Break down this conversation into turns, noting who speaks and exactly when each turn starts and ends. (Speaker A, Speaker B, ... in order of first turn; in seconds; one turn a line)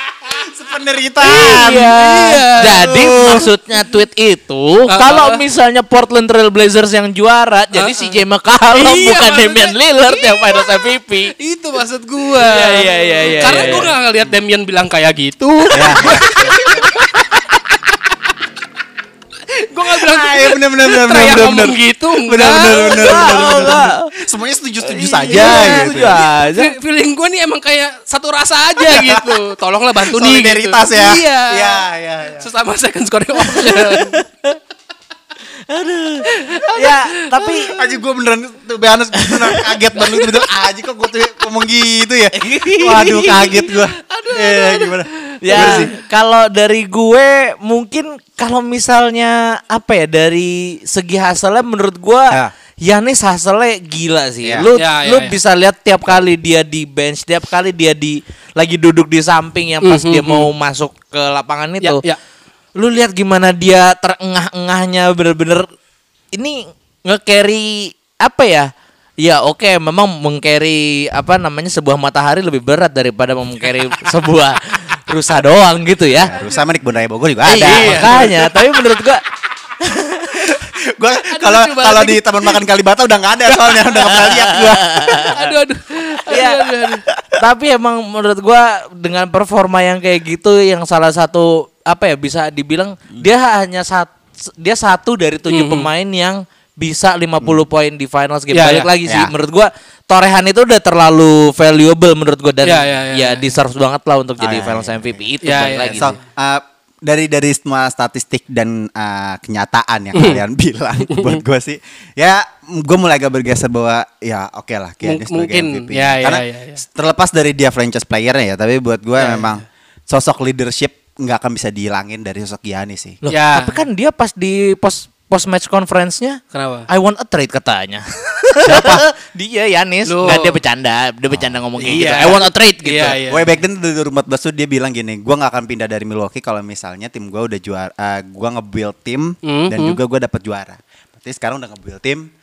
Speaker A: 0.2-2.0
Speaker B: 1.2-11.3
Speaker C: 1.5-3.5
Speaker A: 2.7-3.5
Speaker C: 4.9-5.4
Speaker C: 7.7-8.2
Speaker C: 8.7-10.6
Speaker C: 11.4-17.1
Speaker B: 12.4-13.9
Speaker A: 13.4-13.9
Speaker A: 15.7-16.6
Speaker C: 19.6-23.7
Speaker A: 20.0-26.2
Speaker B: 22.9-24.1
Speaker B: 24.8-26.7
Speaker C: 25.3-31.8
Speaker A: 28.9-29.4
Speaker A: 30.0-32.5
Speaker C: 32.4-34.2
Speaker B: 33.5-34.6
Speaker B: 35.7-37.7
Speaker C: 36.3-37.7
Speaker A: 37.7-45.9
Speaker B: 42.4-43.6
Speaker C: 44.0-45.9
Speaker B: 45.4-62.0
Speaker A: 54.4-54.7
Speaker C: 54.8-55.4
Speaker C: 59.8-60.5
Speaker C: 61.8-62.2
Speaker B: 62.8-65.7
Speaker B: 66.3-68.7
Speaker B: 69.2-76.3
Speaker A: 76.1-78.5
Speaker C: 76.3-76.6
Speaker B: 77.5-79.2
Speaker C: 77.5-78.5
Speaker B: 79.8-80.4
Speaker A: 80.3-85.4
Speaker C: 81.3-82.5
Speaker C: 83.6-84.1
Speaker B: 84.1-85.3
Speaker C: 85.3-87.0
Speaker B: 86.1-86.7
Speaker B: 87.4-106.1
Speaker C: 95.5-95.9
Speaker C: 98.5-98.9
Speaker A: 99.0-99.3
Speaker C: 102.6-103.6
Speaker A: 104.4-105.3
Speaker C: 105.4-106.2
Speaker A: 105.9-123.2
Speaker C: 110.1-110.4
Speaker C: 111.1-111.4
Speaker C: 115.0-116.8
Speaker C: 119.2-119.6
Speaker B: 123.2-133.2
Speaker C: 123.3-123.8
Speaker C: 126.5-126.9
Speaker A: 128.6-129.0
Speaker C: 130.1-130.6
Speaker C: 131.8-133.5
Speaker A: 133.3-142.3
Speaker C: 139.4-140.0